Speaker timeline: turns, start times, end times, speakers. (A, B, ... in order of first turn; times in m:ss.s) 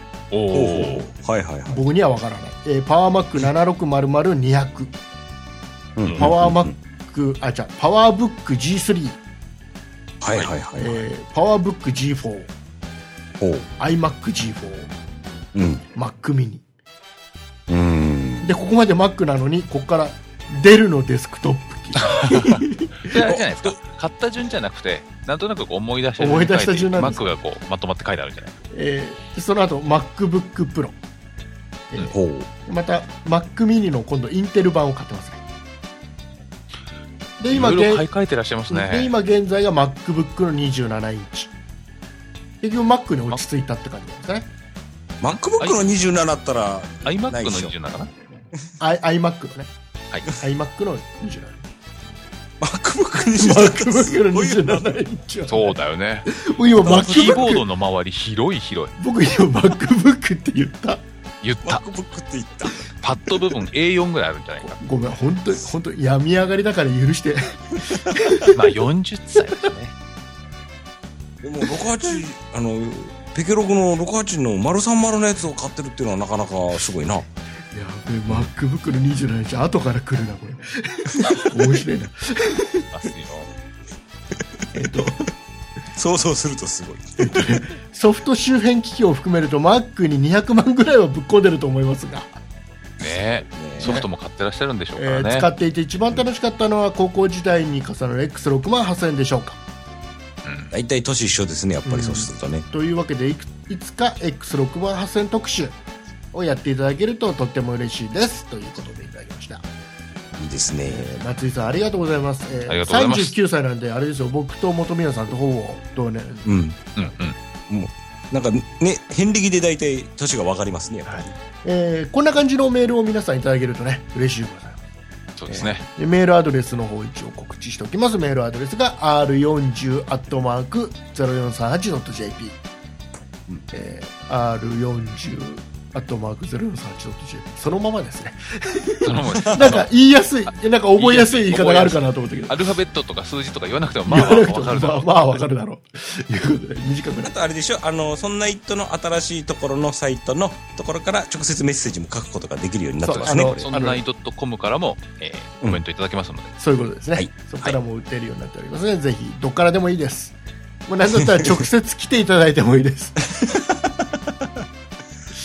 0:00.3-0:01.0 A
0:00.5-0:01.8 B
0:01.7-0:04.9 C
0:06.0-0:06.7 B
0:06.2-0:09.2 C
0:10.2-0:11.0 B
0:10.8-0:12.5 C
0:13.4-0:13.7 B
0:13.8-0:14.9 C
0:15.5-0:15.8 B
0:16.0-0:16.6 C
0:17.7-0:18.5 B
0:18.4-0:23.2 C
0:22.1-0:22.4 A
0:23.1-0:28.6 A
0:23.2-0:23.8 B
0:26.2-0:27.3 C
0:28.7-0:31.0 C
0:32.1-0:32.5 B
0:32.7-0:35.4 C
0:37.4-0:38.1 C
0:37.5-0:39.1 A
0:38.7-0:41.5 C
0:42.6-0:44.5 C
0:45.2-0:47.7 B
0:47.0-0:48.1 A
0:48.8-0:49.7 C
0:50.4-0:51.7 C
0:52.6-0:55.0 B
0:53.3-0:57.6 C
0:55.5-0:56.3 A
0:56.8-0:57.5 B
0:56.8-0:59.0 A
0:59.0-1:01.0 C
1:01.4-1:01.8 A
1:01.6-1:02.8 B
1:03.0-1:04.8 A
1:04.6-1:08.5 C
1:08.5-1:10.0 A
1:11.4-1:17.3 B
1:17.7-1:22.9 C
1:22.9-1:23.5 A
1:24.7-1:25.3 C
1:26.0-1:27.6 B
1:27.2-1:32.4 C
1:33.0-1:34.0 B
1:33.0-1:35.5 A
1:33.8-1:34.1 C
1:35.0-1:39.6 C
1:40.4-1:40.7 A
1:40.7-1:42.7 B
1:41.8-1:45.8 C
1:46.3-1:49.6 C
1:50.4-1:51.1 B
1:50.9-1:56.5 C
1:52.7-1:53.4 A
1:56.4-1:56.8 B
1:57.0-1:57.4 A
1:57.7-2:01.3 B
2:01.1-2:04.8 C
2:05.4-2:05.8 A
2:05.5-2:12.6 C
2:13.7-2:22.6 C
2:19.0-2:19.9 A
2:19.4-2:19.8 B
2:21.0-2:25.4 A
2:24.1-2:27.3 C
2:27.2-2:33.6 B
2:33.0-2:34.0 C
2:33.2-2:36.6 A
2:36.6-2:40.4 C
2:40.9-2:43.2 C
2:43.4-2:44.5 B